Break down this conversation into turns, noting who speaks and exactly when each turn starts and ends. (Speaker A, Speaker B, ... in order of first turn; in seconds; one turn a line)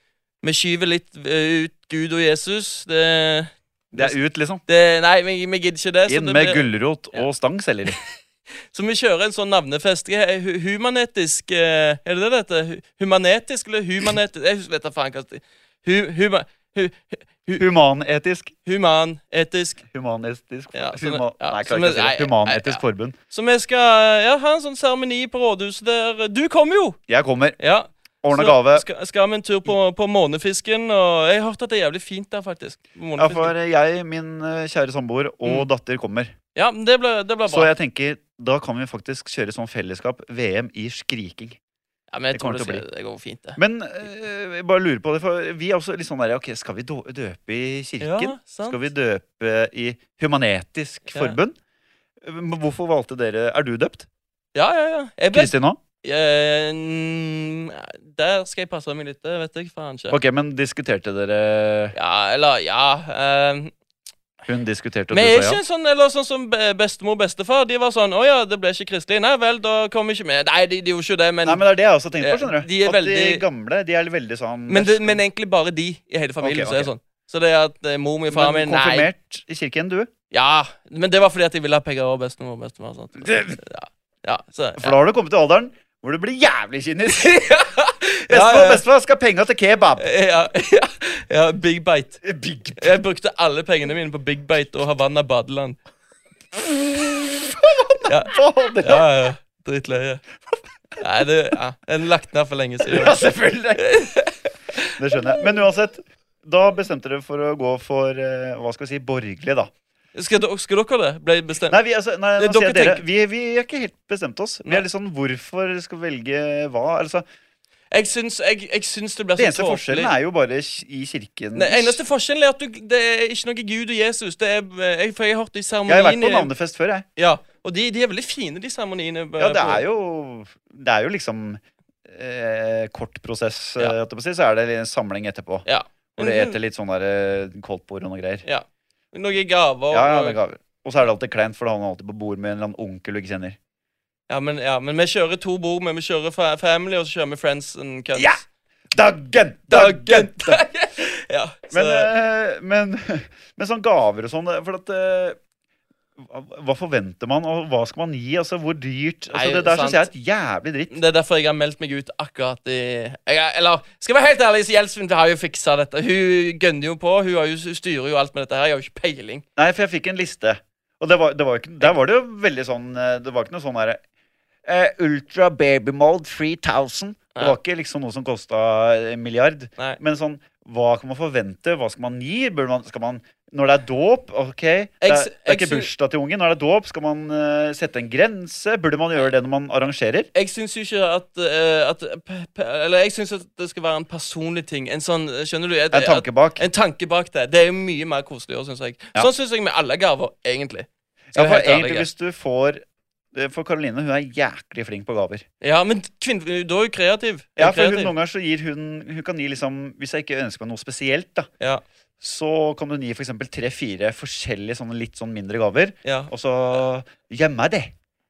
Speaker A: 0.4-7.3
Speaker B: 3.9-4.6
Speaker B: 6.1-8.0
Speaker A: 8.7-17.6
Speaker B: 17.6-18.5
Speaker A: 18.6-19.8
Speaker B: 19.9-23.1
Speaker A: 20.7-27.0
Speaker B: 27.1-27.6
Speaker A: 27.6-33.5
Speaker B: 28.2-28.9
Speaker B: 33.2-36.3
Speaker A: 36.5-37.7
Speaker B: 37.5-41.6
Speaker A: 42.1-43.6
Speaker B: 42.3-42.8
Speaker B: 43.6-51.6
Speaker A: 48.0-48.8
Speaker A: 51.1-51.4
Speaker B: 52.2-54.1
Speaker A: 54.5-60.2
Speaker B: 55.3-55.8
Speaker B: 60.1-61.9
Speaker A: 61.9-63.7
Speaker B: 64.5-65.6
Speaker A: 65.1-71.6
Speaker B: 71.4-75.2
Speaker A: 72.2-73.4
Speaker A: 74.7-79.1
Speaker B: 76.4-76.9
Speaker B: 78.3-80.1
Speaker A: 80.3-85.0
Speaker B: 83.2-83.6
Speaker B: 84.8-87.4
Speaker A: 87.1-88.8
Speaker B: 88.3-90.1
Speaker A: 90.0-92.2
Speaker B: 92.2-93.0
Speaker A: 92.8-95.8
Speaker B: 96.5-99.1
Speaker A: 98.1-100.2
Speaker A: 101.0-103.2
Speaker B: 102.8-104.1
Speaker A: 103.8-105.0
Speaker B: 105.0-109.7
Speaker A: 110.1-111.8
Speaker B: 111.7-117.2
Speaker A: 112.4-113.0
Speaker A: 117.9-120.1
Speaker B: 119.4-122.0
Speaker A: 121.5-126.5
Speaker B: 125.9-127.0
Speaker A: 127.2-129.8
Speaker B: 129.4-135.6
Speaker A: 135.7-136.6
Speaker B: 136.2-138.4
Speaker A: 138.4-140.4
Speaker B: 139.9-143.6
Speaker A: 144.3-148.4
Speaker B: 148.1-148.4
Speaker B: 148.9-150.6
Speaker A: 149.7-152.1
Speaker B: 151.7-155.4
Speaker B: 156.2-160.9
Speaker A: 159.3-160.1
Speaker A: 160.9-169.4
Speaker B: 169.6-174.0
Speaker B: 174.7-190.3
Speaker A: 185.0-185.9
Speaker A: 190.3-202.1
Speaker B: 195.9-196.6
Speaker B: 201.3-202.8
Speaker B: 203.3-205.4
Speaker A: 205.6-208.1
Speaker B: 207.6-211.5
Speaker B: 212.2-217.9
Speaker A: 216.1-216.3